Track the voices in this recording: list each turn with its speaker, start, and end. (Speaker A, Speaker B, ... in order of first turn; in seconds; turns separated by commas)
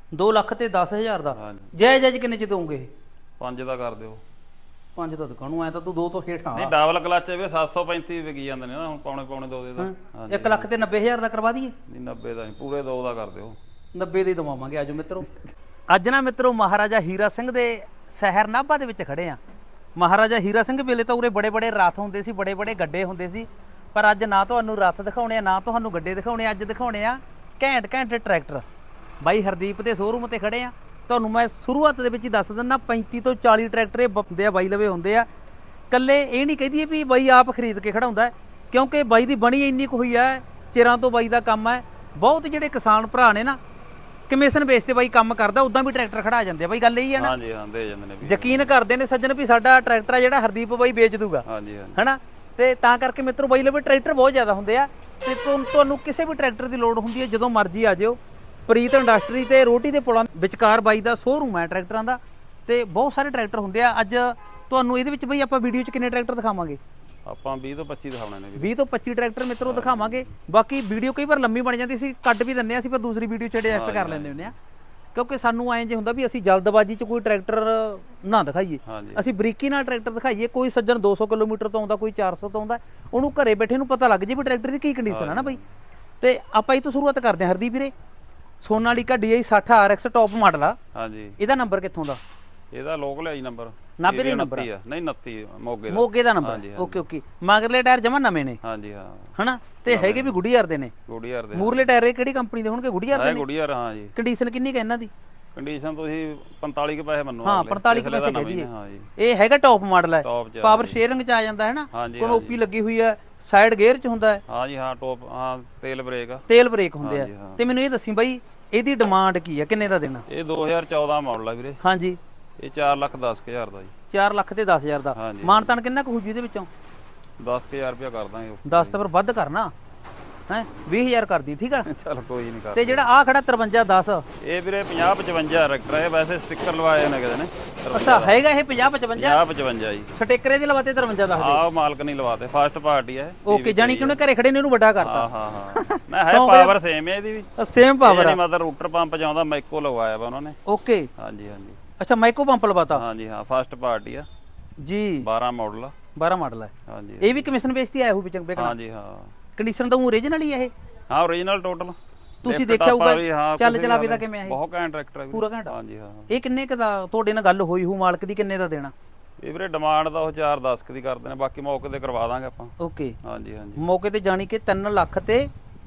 Speaker A: 0.1-2.9, Speaker B: 1.3-1.7, Speaker B: 3.4-4.2, Speaker A: 5.0-6.7, Speaker B: 6.5-10.7, Speaker A: 9.8-11.7, Speaker B: 11.9-13.6, Speaker A: 13.9-15.3, Speaker A: 15.9-19.4, Speaker A: 19.9-28.6, Speaker A: 29.2-35.3, Speaker A: 35.9-43.6, Speaker A: 44.3-47.3, Speaker B: 47.2-48.7, Speaker A: 48.2-51.4, Speaker B: 51.5-52.0, Speaker A: 52.0-66.8, Speaker B: 67.2-68.7, Speaker A: 68.6-74.5, Speaker B: 69.6-70.3, Speaker B: 73.7-74.5, Speaker A: 75.1-85.6, Speaker B: 78.8-79.3, Speaker B: 85.1-85.7, Speaker A: 86.2-87.9, Speaker A: 88.6-90.8, Speaker B: 90.9-91.4, Speaker A: 91.4-92.2, Speaker B: 92.7-97.0, Speaker A: 94.0-94.7, Speaker A: 95.9-98.6, Speaker B: 98.6-99.3, Speaker A: 99.4-100.9, Speaker B: 99.8-100.4, Speaker B: 101.1-101.8, Speaker A: 101.5-103.4, Speaker B: 103.1-104.1, Speaker A: 104.2-105.1, Speaker B: 105.5-109.1, Speaker A: 107.4-114.4, Speaker B: 110.2-111.0, Speaker B: 111.9-112.6, Speaker B: 114.5-116.4, Speaker A: 116.5-120.2, Speaker B: 117.0-117.6, Speaker B: 120.3-121.8, Speaker A: 121.8-122.2, Speaker B: 122.6-123.9, Speaker A: 124.1-126.7, Speaker B: 125.1-125.8, Speaker B: 127.4-129.0, Speaker A: 128.7-129.7, Speaker A: 130.5-131.9, Speaker B: 131.8-133.1, Speaker A: 132.7-134.2, Speaker B: 134.4-138.4, Speaker A: 137.9-139.4, Speaker B: 139.1-140.1, Speaker A: 140.2-141.6, Speaker B: 141.4-144.2, Speaker A: 143.4-146.7, Speaker B: 145.0-147.5, Speaker A: 147.6-148.4, Speaker B: 148.0-150.6, Speaker A: 150.7-151.1, Speaker B: 151.2-151.8, Speaker A: 152.0-153.0, Speaker B: 152.9-154.3, Speaker A: 154.8-155.2, Speaker B: 155.2-155.9, Speaker A: 156.1-158.7, Speaker B: 156.9-157.5, Speaker B: 158.6-159.3, Speaker A: 159.6-160.7, Speaker B: 161.1-166.3, Speaker A: 162.4-164.6, Speaker A: 165.3-165.7, Speaker A: 166.3-168.9, Speaker B: 169.4-173.8, Speaker A: 172.8-173.2, Speaker A: 173.8-175.5